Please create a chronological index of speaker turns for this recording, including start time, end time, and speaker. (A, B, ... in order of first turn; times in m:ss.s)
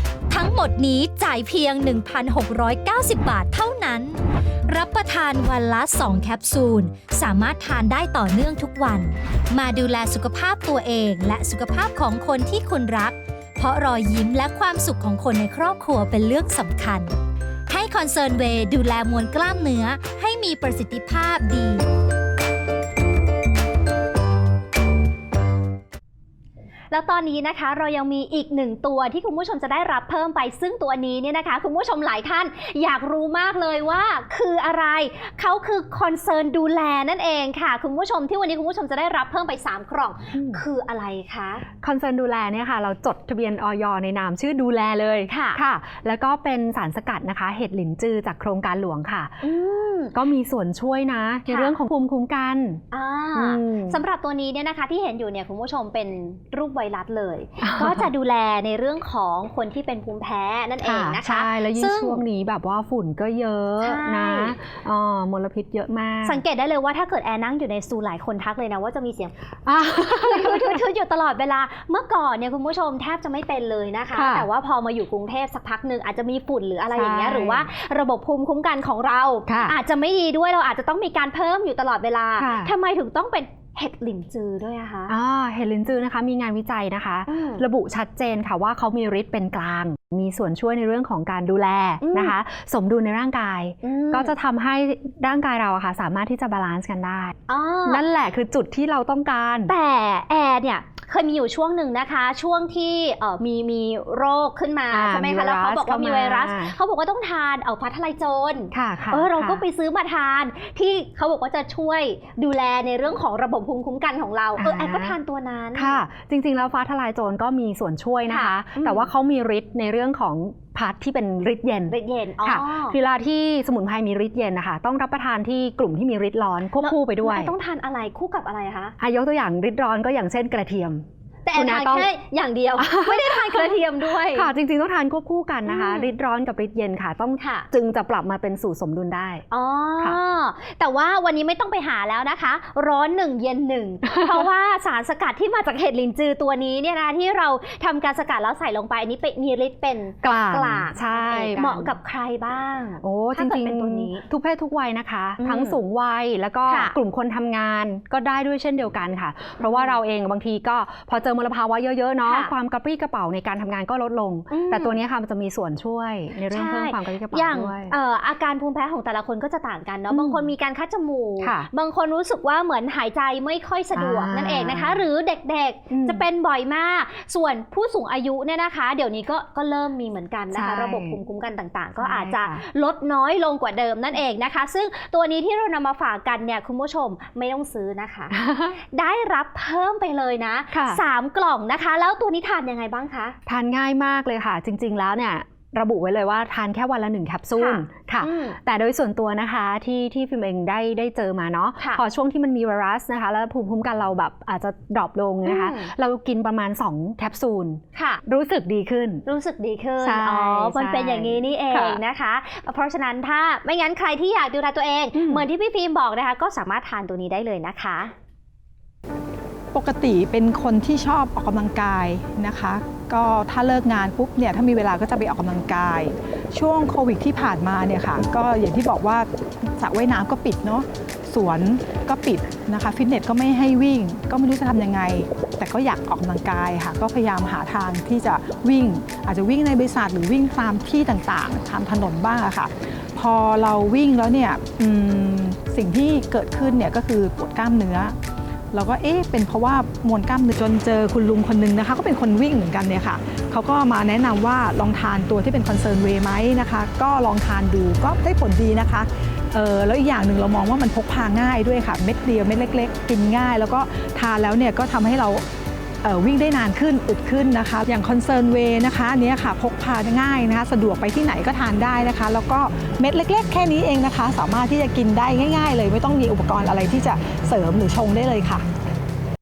0:00.3-0:17.1 A
0:17.7-0:21.8 A
0:26.9-0:41.7 B
0:40.3-0:40.6 C
0:41.8-0:49.3 C
0:45.3-0:45.6 B
0:49.4-0:50.2 B
0:50.1-0:52.8 C
0:51.5-0:51.7 B
0:52.9-1:02.2 B
0:53.4-0:54.0 C
0:57.6-0:58.1 C
1:00.8-1:06.4 C
1:03.8-1:04.6 B
1:06.2-1:09.3 B
1:09.7-1:10.8 C
1:10.1-1:25.1 B
1:14.1-1:14.5 C
1:16.9-1:17.7 C
1:19.5-1:19.8 C
1:22.4-1:22.7 C
1:25.1-1:39.7 C
1:27.3-1:27.6 B
1:32.0-1:32.4 B
1:33.8-1:34.4 B
1:37.5-1:38.0 B
1:39.7-1:56.0 B
1:44.9-1:46.7 C
1:48.7-1:49.6 C
1:54.6-1:55.2 C
1:55.7-2:07.5 C
1:58.3-1:59.1 B
2:01.9-2:03.0 B
2:06.8-2:09.0 B
2:09.0-2:12.1 C
2:11.4-2:14.5 B
2:12.8-2:19.4 C
2:15.7-2:16.1 B
2:17.4-2:17.7 B
2:19.5-2:34.2 B
2:24.1-2:24.5 C
2:30.2-2:31.9 C
2:33.0-2:48.0 C
2:35.4-2:35.8 B
2:36.6-2:37.0 B
2:39.6-2:40.0 B
2:42.2-2:42.5 B
2:44.5-2:45.0 B
2:46.5-3:08.4 B
2:50.1-2:50.5 C
2:51.4-2:51.7 C
2:53.9-2:55.0 C
2:55.9-2:56.2 C
3:00.5-3:01.2 C
3:02.0-3:02.6 C
3:08.3-3:08.8 C
3:08.9-3:13.4 B
3:10.7-3:11.0 C
3:13.5-3:29.2 C
3:17.6-3:18.6 B
3:25.4-3:25.9 B
3:28.0-3:28.2 B
3:29.3-3:38.1 B
3:30.0-3:32.0 C
3:35.1-3:35.4 C
3:39.7-4:08.2 D
4:08.7-4:25.5 D
4:26.0-4:38.6 D